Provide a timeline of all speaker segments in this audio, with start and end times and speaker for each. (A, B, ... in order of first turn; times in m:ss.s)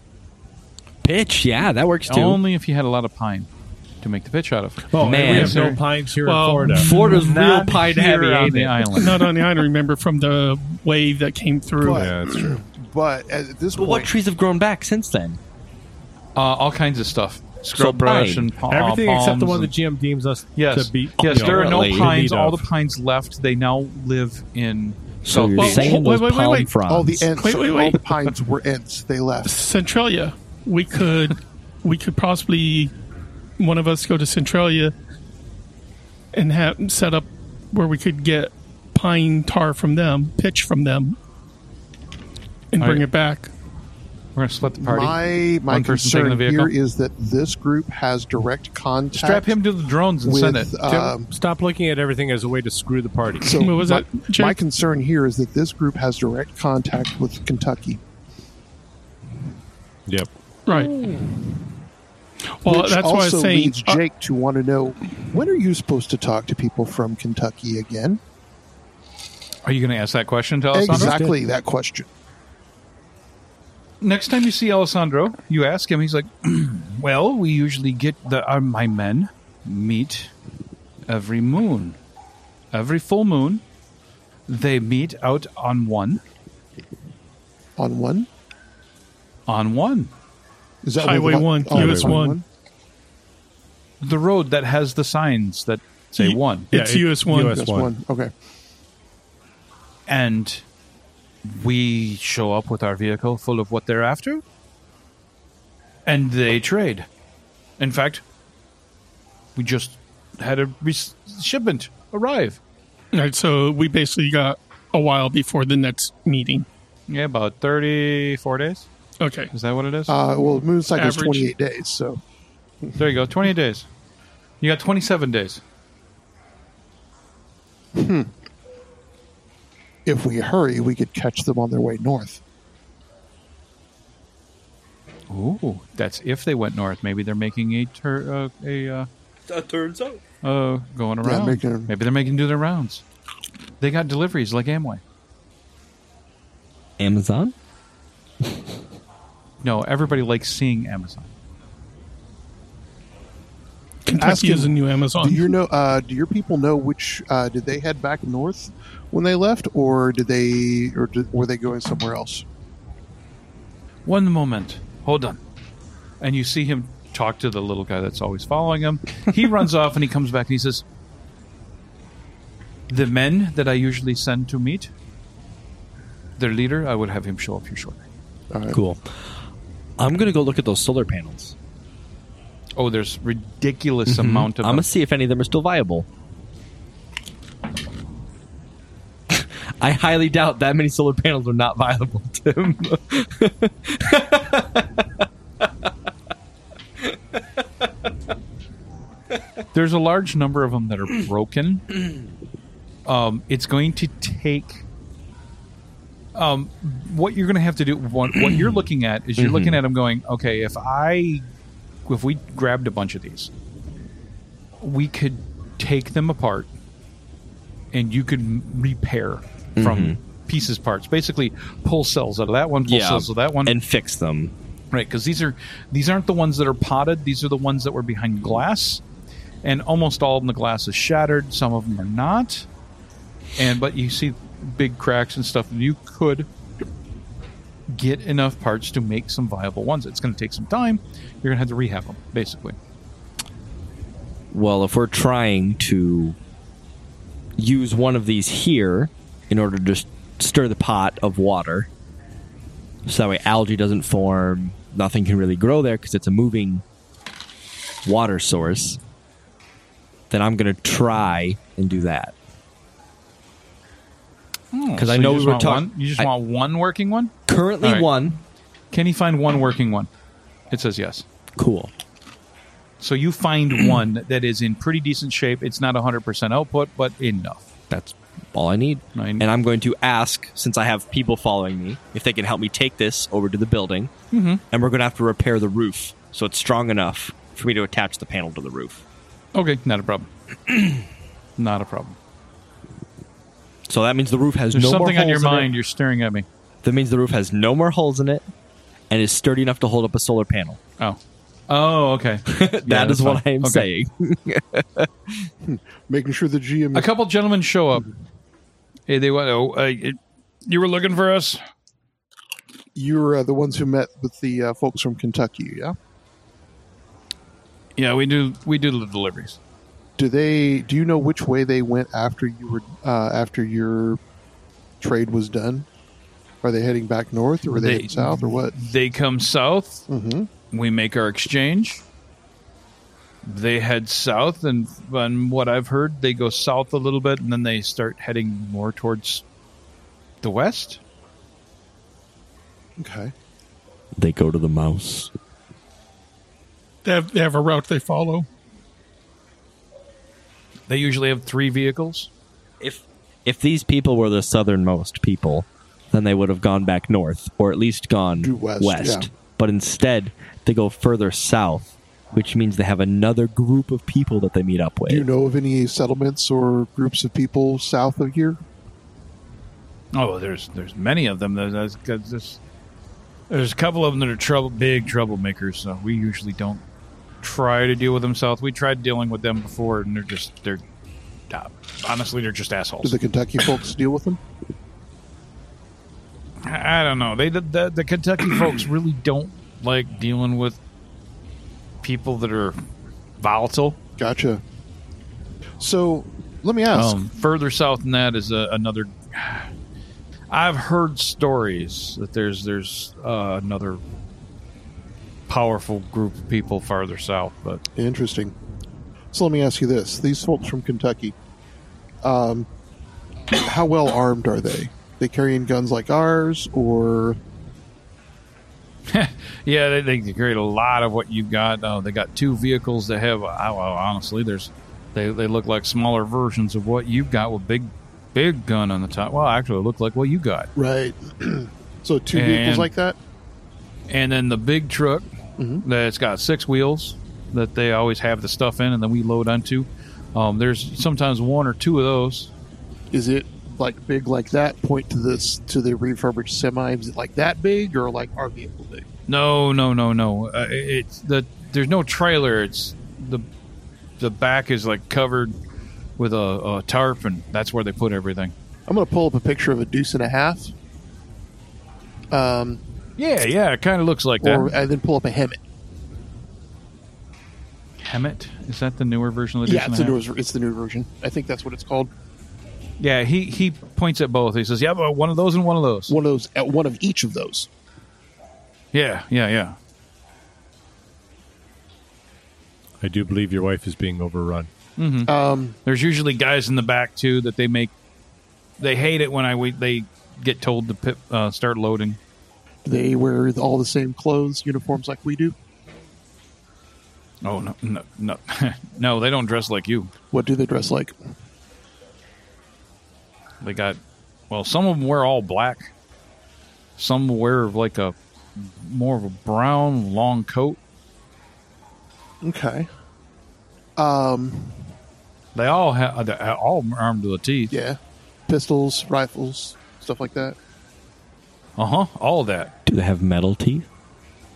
0:01.0-0:02.4 A
0:02.1-0:03.5 B
0:04.0-0:05.8 B
0:04.9-0:06.9 C
0:05.0-0:05.6 A
0:06.2-0:07.1 D
0:06.7-0:09.1 A
0:06.8-0:09.2 B
0:08.9-0:12.1 D
0:11.8-0:14.1 E
0:11.9-0:12.5 C
0:13.7-0:15.4 A
0:16.4-0:19.7 B
0:17.7-0:18.5 A
0:18.7-0:22.7 C
0:20.6-0:25.9 B
0:21.2-0:22.1 A
0:25.2-0:27.3 A
0:25.6-0:26.7 D
0:26.9-0:29.6 E
0:27.4-0:28.0 D
0:29.4-0:32.9 D
0:33.6-0:34.9 D
0:36.3-0:41.2 D
0:42.7-0:43.5 D
0:42.8-0:43.0 B
0:44.4-0:46.7 B
0:44.8-0:49.5 E
0:49.1-0:50.7 B
0:50.2-0:51.3 E
0:50.9-0:53.6 C
0:53.4-0:58.0 E
0:53.5-0:54.6 D
1:00.6-1:01.0 D
1:00.8-1:01.3 A
1:02.6-1:04.0 D
1:02.6-1:08.2 E
1:09.6-1:11.2 B
1:10.7-1:12.1 E
1:10.9-1:11.4 C
1:14.0-1:20.3 B
1:21.1-1:22.0 B
1:22.7-1:23.6 B
1:24.5-1:26.2 B
1:27.8-1:28.3 E
1:29.5-1:30.1 B
1:30.8-1:32.4 E
1:31.0-1:32.4 D
1:31.7-1:32.2 C
1:34.0-1:36.7 B
1:36.2-1:37.6 D
1:36.7-1:37.9 C
1:37.5-1:38.3 E
1:40.1-1:40.6 B
1:41.4-1:44.4 B
1:46.0-1:47.1 B
1:47.8-1:48.2 B
1:49.6-1:52.6 B
1:53.1-1:56.6 D
1:57.1-1:58.9 B
1:59.2-1:59.5 D
1:59.5-2:00.2 B
2:00.1-2:02.2 E
2:00.9-2:01.5 D
2:03.0-2:03.9 B
2:04.6-2:05.6 B
2:07.9-2:08.3 E
2:10.0-2:12.4 E
2:15.3-2:19.1 B
2:19.5-2:20.2 A
2:20.4-2:23.0 B
2:21.2-2:21.9 E
2:23.8-2:25.0 B
2:27.0-2:27.5 A
2:29.6-2:31.3 B
2:34.0-2:35.5 D
2:34.2-2:42.4 E
2:44.0-2:45.4 B
2:46.2-2:50.8 B
2:52.9-2:54.9 B
2:56.4-2:58.0 B
2:58.5-2:58.8 E
2:58.7-2:59.2 A
3:00.0-3:01.5 A
3:02.8-3:04.9 B
3:04.1-3:06.1 A
3:09.3-3:15.2 A
3:19.7-3:21.8 B
3:23.0-3:24.8 B
3:26.3-3:31.4 B
3:29.4-3:29.8 A
3:32.0-3:33.5 B
3:34.8-3:36.7 B
3:37.9-3:43.7 B
3:39.8-3:40.2 A
3:42.8-3:44.5 A
3:44.9-3:49.0 B
3:49.6-3:52.7 B
3:53.6-3:56.5 B
3:57.9-4:02.8 B
4:04.5-4:06.4 A
4:07.6-4:11.9 A
4:13.0-4:16.8 A
4:18.0-4:19.0 A
4:20.3-4:22.3 A
4:24.7-4:28.1 B
4:25.0-4:26.3 A
4:27.5-4:28.4 A
4:28.9-4:30.1 B
4:30.7-4:31.2 B
4:31.6-4:31.9 A
4:33.0-4:37.7 B
4:37.9-4:44.1 A
4:39.1-4:39.4 B
4:44.3-4:44.6 B
4:44.7-4:49.0 A
4:49.5-4:50.3 B
4:51.6-4:52.2 B
4:53.9-4:55.7 A
4:54.7-4:56.5 B
4:56.8-4:58.4 A
4:59.1-5:00.8 A
5:01.0-5:03.9 B
5:02.5-5:05.5 A
5:05.6-5:07.1 E
5:06.9-5:08.1 B
5:09.1-5:11.6 B
5:12.9-5:16.0 E
5:18.0-5:19.6 B
5:20.2-5:24.2 E
5:25.0-5:25.9 E
5:26.6-5:28.8 E
5:27.7-5:30.0 B
5:30.1-5:30.5 E
5:30.7-5:32.0 B
5:33.4-5:39.4 B
5:40.4-5:41.0 B
5:43.0-5:43.3 E
5:44.2-5:45.3 A
5:47.0-5:48.5 D
5:50.9-5:52.3 B
5:52.8-6:05.3 A
5:58.4-5:59.3 E
6:05.1-6:08.6 E
6:10.1-6:12.6 B
6:13.5-6:16.8 B
6:17.4-6:20.8 B
6:21.5-6:23.1 B
6:23.0-6:24.4 E
6:26.6-6:30.8 B
6:32.0-6:32.8 B
6:33.4-6:34.0 B
6:34.2-6:34.6 E
6:35.8-6:37.2 E
6:36.9-6:39.7 B
6:40.5-6:44.0 B
6:45.5-6:47.8 B
6:48.0-6:48.5 E
6:49.3-6:51.3 E
6:52.2-6:52.7 E
6:53.5-6:57.4 E
6:59.1-7:10.7 B
7:10.8-7:13.2 E
7:12.3-7:12.9 B
7:14.1-7:15.3 B
7:15.6-7:15.8 E
7:15.8-7:22.5 B
7:23.1-7:29.0 E
7:29.3-7:33.4 B
7:34.2-7:35.5 B
7:36.2-7:38.5 B
7:38.9-7:40.7 E
7:42.3-7:42.8 E
7:43.2-7:44.7 B
7:44.4-7:45.6 E
7:48.0-7:50.2 B
7:49.6-7:52.1 E
7:53.0-7:56.2 B
7:56.1-7:57.7 E
7:58.9-7:59.8 B
8:03.0-8:04.7 C
8:05.0-8:05.3 B
8:05.2-8:05.8 E
8:05.8-8:07.9 B
8:08.8-8:12.2 B
8:12.8-8:15.5 E
8:17.4-8:20.1 B
8:20.3-8:21.1 E
8:23.6-8:24.0 B
8:24.5-8:25.9 B
8:27.0-8:30.8 B
8:32.4-8:32.9 E
8:34.0-8:34.9 E
8:35.5-8:37.8 B
8:37.7-8:40.6 E
8:41.8-8:42.7 B
8:42.8-8:43.8 A